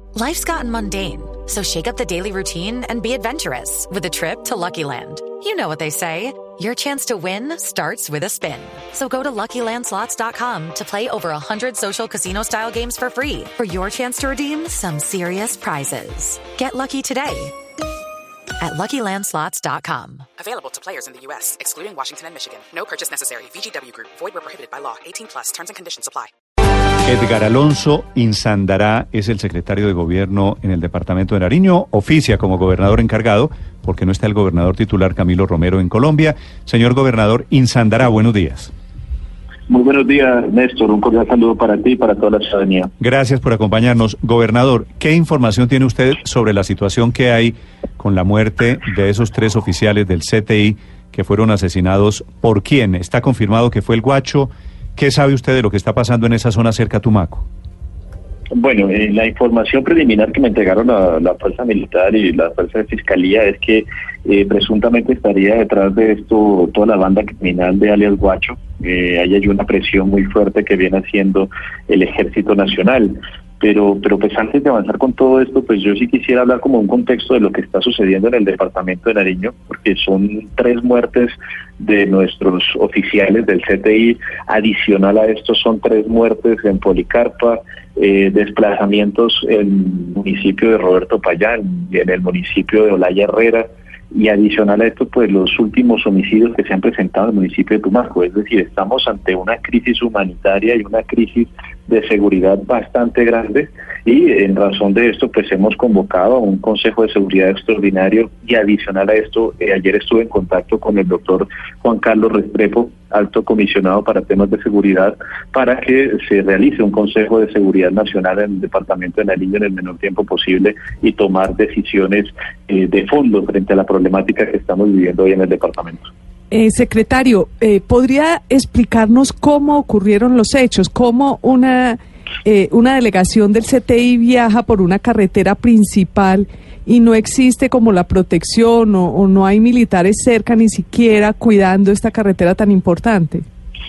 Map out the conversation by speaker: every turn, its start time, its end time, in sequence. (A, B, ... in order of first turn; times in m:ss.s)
0:00.2-0:17.6 A
0:18.6-0:20.3 A
0:20.4-0:26.3 B
0:27.0-0:38.7 C
0:39.7-0:42.9 D
0:43.0-0:57.5 C
0:58.5-2:06.1 D
2:06.5-2:23.4 E